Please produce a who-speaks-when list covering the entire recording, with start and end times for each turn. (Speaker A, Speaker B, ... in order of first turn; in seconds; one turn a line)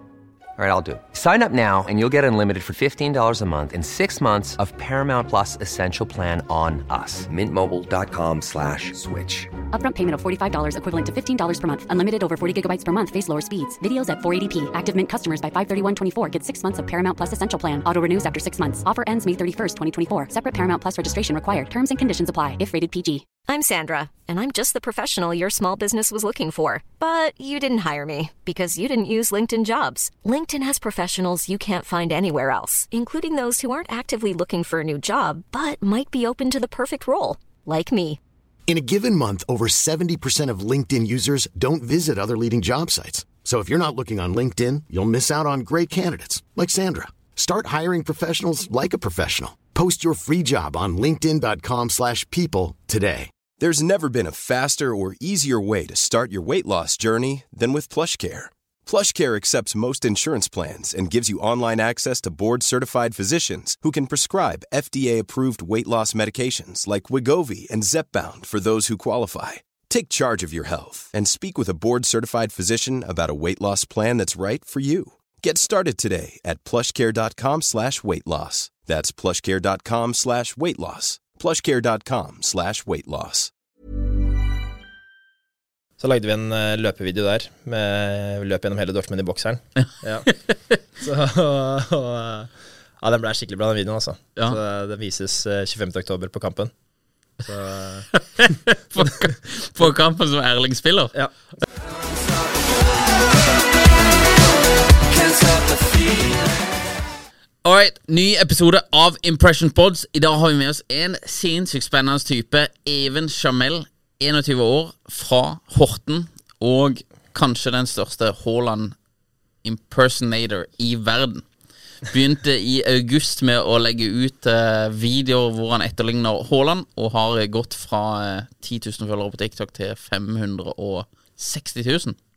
Speaker A: 0.6-9.5
Speaker B: 9.7-23.3
Speaker C: 23.5-38.2
Speaker D: 38.7-53.3
Speaker E: 53.6-83.5
Speaker F: 86.0-90.3
Speaker G: 89.8-90.3
Speaker F: 91.0-96.7
Speaker F: 97.4-98.1
Speaker G: 98.1-101.2
Speaker G: 107.6-119.0
Speaker G: 119.6-121.5
Speaker G: 122.1-132.2